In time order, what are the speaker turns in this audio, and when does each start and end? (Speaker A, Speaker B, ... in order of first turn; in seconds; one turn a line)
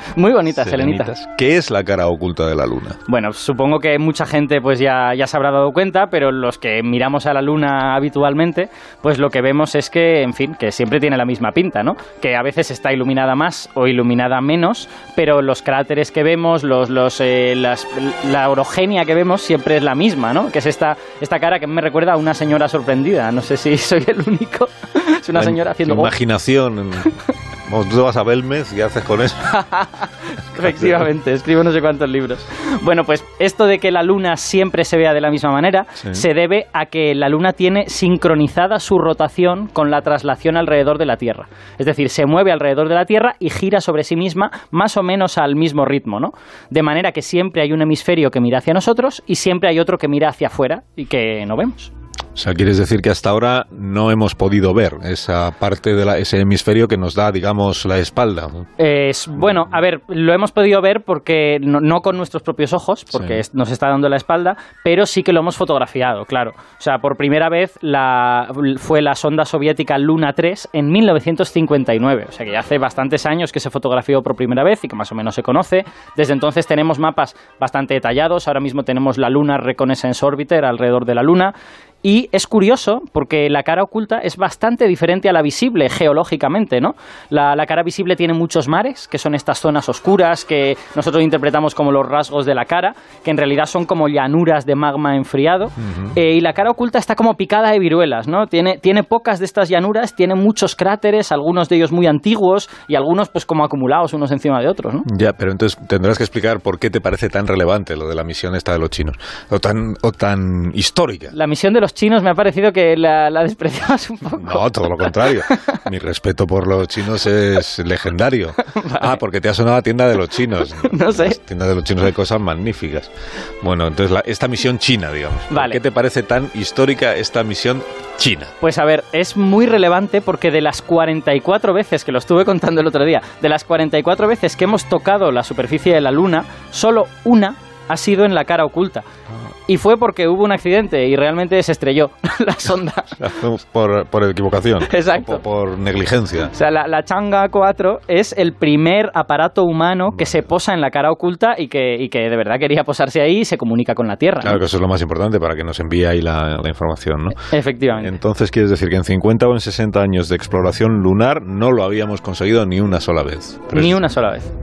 Speaker A: 0.1-1.1
Speaker B: 0.5-3.0
Speaker A: 3.1-26.1
Speaker B: 25.3-27.1
Speaker B: 27.7-29.6
Speaker A: 29.5-51.9
Speaker B: 30.6-31.0
Speaker B: 36.0-36.2
Speaker B: 52.4-58.7
Speaker A: 58.8-105.1
Speaker B: 63.1-63.4
Speaker B: 105.1-111.3
Speaker A: 111.3-115.5
Speaker B: 114.4-123.1
Speaker A: 118.7-119.2
Speaker A: 120.7-121.4
Speaker B: 123.6-128.5
Speaker A: 125.5-125.8
Speaker A: 128.6-139.1
Speaker A: 139.7-143.2
Speaker B: 143.2-146.5
Speaker A: 144.9-145.4
Speaker A: 146.5-154.6
Speaker B: 150.1-150.4
Speaker B: 154.4-164.0
Speaker A: 157.4-158.2
Speaker A: 163.7-164.5